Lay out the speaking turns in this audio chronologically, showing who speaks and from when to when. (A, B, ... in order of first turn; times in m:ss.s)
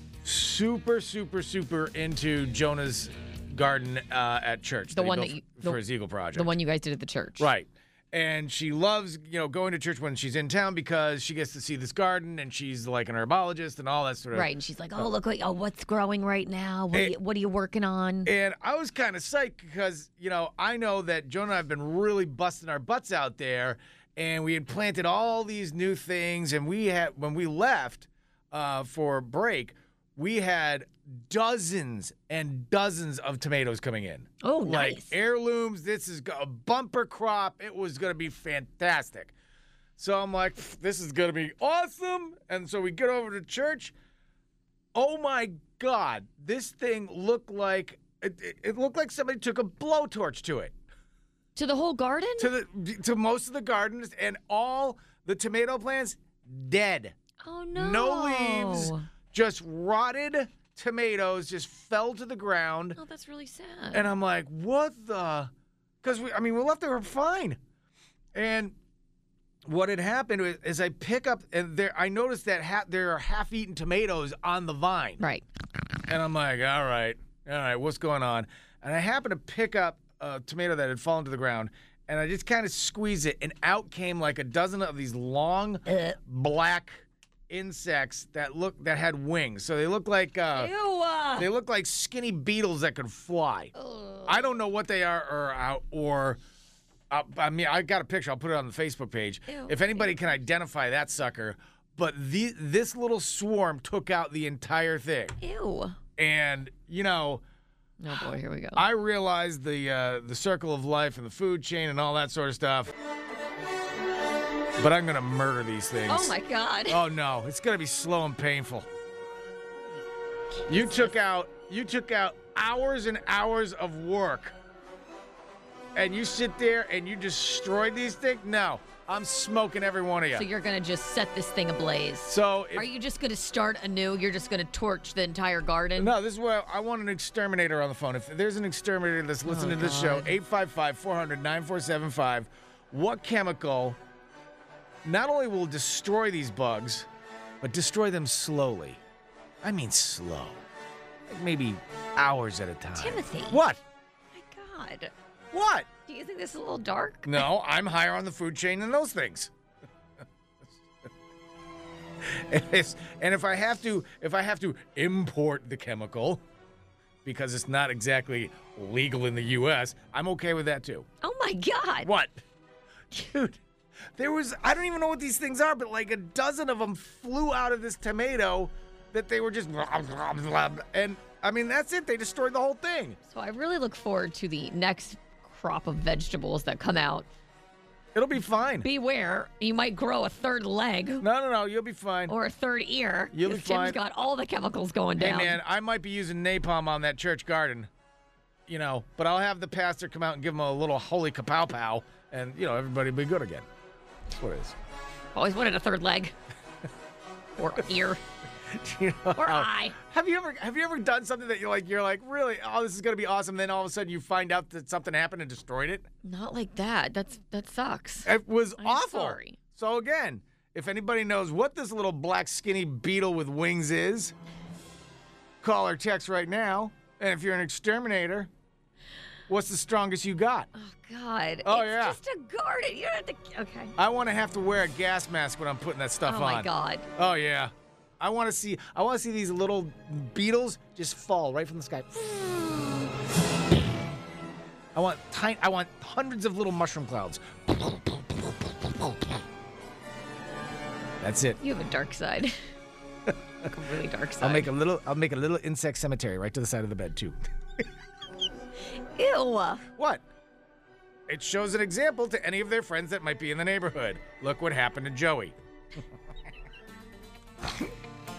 0:00.2-0:06.5 A
0:04.9-0:05.8 B
0:06.3-0:07.5 B
0:07.4-0:15.0 A
0:14.3-0:18.3 B
0:18.2-0:39.3 A
0:34.4-0:35.1 B
0:40.0-0:43.9 A
0:44.9-0:50.7 A
0:51.6-0:52.5 B
0:52.4-0:57.2 A
0:57.4-0:59.1 B
0:57.7-1:03.0 A
1:03.0-1:04.1 B
1:03.9-1:05.5 A
1:06.0-1:07.6 A
1:08.3-1:08.8 A
1:09.6-1:15.2 A
1:16.1-1:30.7 A
1:25.9-1:26.2 B
1:30.6-1:31.5 B
1:31.4-1:33.7 A
1:33.8-1:34.4 B
1:34.3-1:36.4 A
1:37.1-1:45.4 A
1:39.5-1:40.4 B
1:45.4-1:46.0 B
1:46.2-1:47.4 A
1:48.0-1:48.8 B
1:48.8-1:52.9 A
1:54.8-1:58.9 A
1:56.1-1:57.0 B
2:00.7-2:01.1 B
2:00.7-2:04.6 A
2:06.0-2:10.5 A
2:10.3-2:16.1 B
2:12.3-2:12.9 A
2:16.0-2:24.0 A
2:19.5-2:20.4 B
2:25.0-2:27.1 A
2:27.6-2:29.0 A
2:29.6-2:30.6 A
2:31.3-2:33.8 A
2:33.0-2:33.6 B
2:34.3-2:35.1 B
2:35.5-2:35.9 A
2:36.1-2:37.5 B
2:37.3-2:39.5 A
2:42.2-2:46.4 A
2:47.2-2:51.1 A
2:51.2-2:52.1 B
2:52.0-2:52.4 A
2:53.1-2:53.6 A
2:54.2-3:03.2 A
3:03.3-3:07.3 B
3:08.2-3:08.9 A
3:08.8-3:11.2 B
3:11.2-3:12.3 A
3:12.3-3:15.6 B
3:13.3-3:14.0 A
3:15.2-3:17.9 A
3:18.7-3:23.7 A
3:24.3-3:24.8 A
3:25.4-3:26.3 B
3:27.6-3:28.2 B
3:28.7-3:36.1 A
3:29.4-3:30.0 B
3:36.2-3:39.6 B
3:38.2-3:44.3 A
3:45.6-3:48.5 A
3:49.5-3:50.7 A
3:50.8-3:53.9 B
3:51.6-3:52.2 A
3:54.0-4:02.5 A
3:56.3-3:57.1 B
4:02.5-4:03.0 B
4:05.0-4:09.4 A
4:11.2-4:11.6 A
4:11.6-4:12.6 B
4:13.6-4:14.7 B
4:14.4-4:17.9 A
4:19.0-4:19.8 B
4:19.9-4:20.2 A
4:21.3-4:25.6 A